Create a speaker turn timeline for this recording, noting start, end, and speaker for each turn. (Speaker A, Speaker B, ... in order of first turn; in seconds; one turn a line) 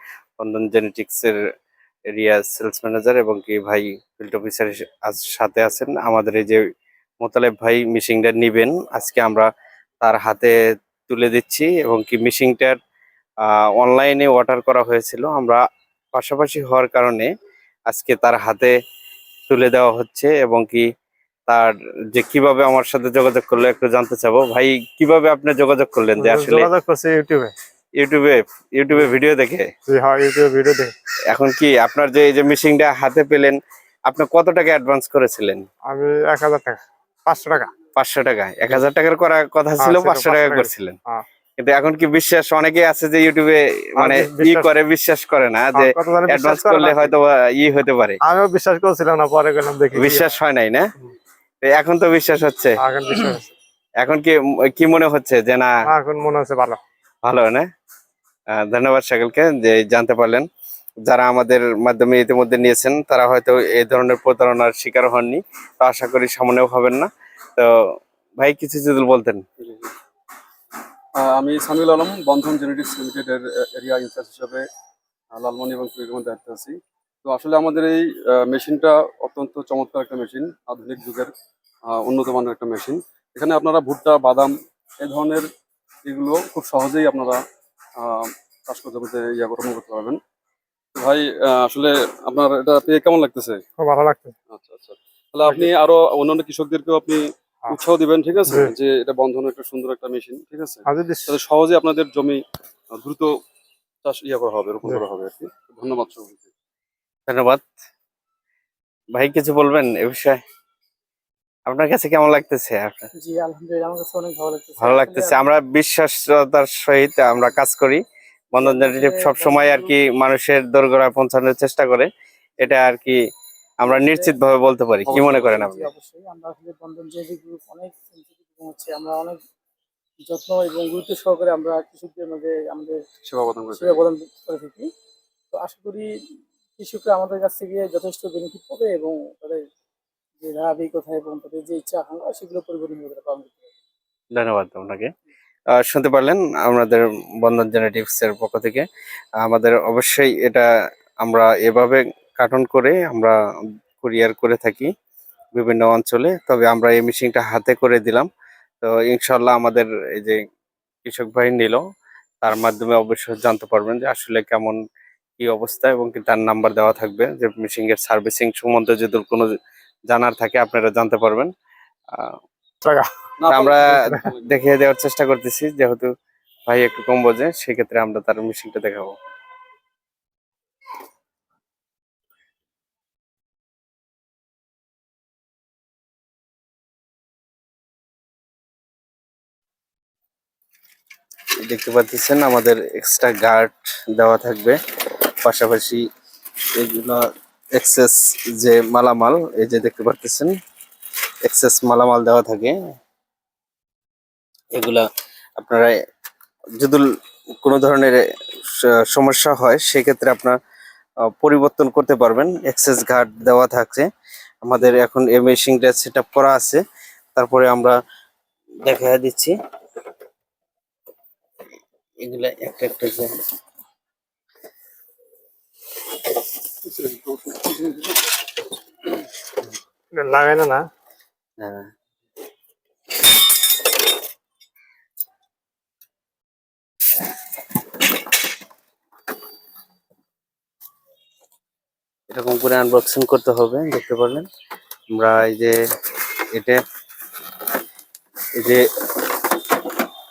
Speaker A: 0.4-1.4
Speaker A: 2.1-6.7
Speaker A: 7.2-9.5
Speaker A: 10.0-10.6
Speaker A: 11.1-12.8
Speaker A: 13.4-15.6
Speaker A: 16.1-17.3
Speaker A: 17.9-18.7
Speaker A: 19.5-20.9
Speaker A: 21.5-26.7
Speaker B: 26.2-27.5
Speaker A: 28.0-29.7
Speaker B: 29.9-30.9
Speaker A: 31.3-33.6
Speaker A: 34.1-35.7
Speaker B: 35.9-37.7
Speaker A: 37.9-41.0
Speaker B: 39.8-41.2
Speaker A: 41.6-48.2
Speaker B: 44.0-44.7
Speaker B: 45.7-47.1
Speaker B: 48.2-50.3
Speaker A: 50.0-50.9
Speaker A: 51.6-52.8
Speaker B: 52.8-53.5
Speaker A: 54.0-55.7
Speaker B: 55.9-56.8
Speaker A: 57.2-57.6
Speaker A: 58.6-60.5
Speaker A: 61.1-67.7
Speaker A: 68.4-69.4
Speaker C: 69.6-69.9
Speaker C: 71.2-74.7
Speaker C: 75.3-81.3
Speaker C: 81.9-85.5
Speaker C: 86.0-87.4
Speaker C: 88.0-90.2
Speaker C: 91.0-93.6
Speaker B: 93.8-94.3
Speaker C: 94.5-102.4
Speaker B: 98.5-98.7
Speaker B: 100.9-101.3
Speaker C: 102.9-103.3
Speaker C: 104.0-106.5
Speaker A: 107.3-107.7
Speaker A: 109.2-110.4
Speaker A: 111.7-113.1
Speaker D: 113.2-115.5
Speaker A: 114.8-118.0
Speaker A: 118.5-122.1
Speaker D: 118.6-119.9
Speaker A: 122.6-123.2
Speaker A: 123.8-125.9
Speaker D: 123.8-124.4
Speaker D: 125.1-129.4
Speaker D: 130.2-133.0
Speaker C: 133.2-134.1
Speaker D: 133.7-134.9
Speaker D: 135.5-136.1
Speaker D: 136.8-139.6
Speaker D: 140.4-143.7
Speaker A: 144.3-145.1
Speaker A: 145.8-148.8
Speaker A: 149.4-150.7
Speaker A: 151.2-153.3
Speaker A: 154.0-154.9
Speaker A: 155.5-158.3
Speaker A: 158.8-160.4
Speaker A: 161.1-161.8
Speaker A: 162.4-164.8
Speaker A: 165.4-169.5
Speaker A: 170.1-171.5
Speaker C: 173.4-174.5
Speaker A: 173.5-176.1
Speaker A: 176.7-179.2
Speaker A: 191.7-194.8
Speaker A: 195.4-196.0
Speaker A: 196.8-200.5
Speaker A: 201.4-202.8
Speaker A: 204.8-205.0
Speaker A: 205.6-205.9
Speaker A: 206.8-208.2
Speaker A: 208.8-210.6
Speaker A: 211.4-214.1
Speaker A: 214.7-216.8
Speaker A: 217.3-217.9
Speaker A: 218.8-219.5
Speaker A: 222.2-223.3
Speaker C: 226.9-227.8
Speaker B: 230.1-230.8
Speaker A: 231.6-231.9
Speaker A: 242.3-244.5
Speaker A: 245.1-245.8
Speaker A: 246.6-246.8
Speaker A: 248.6-248.8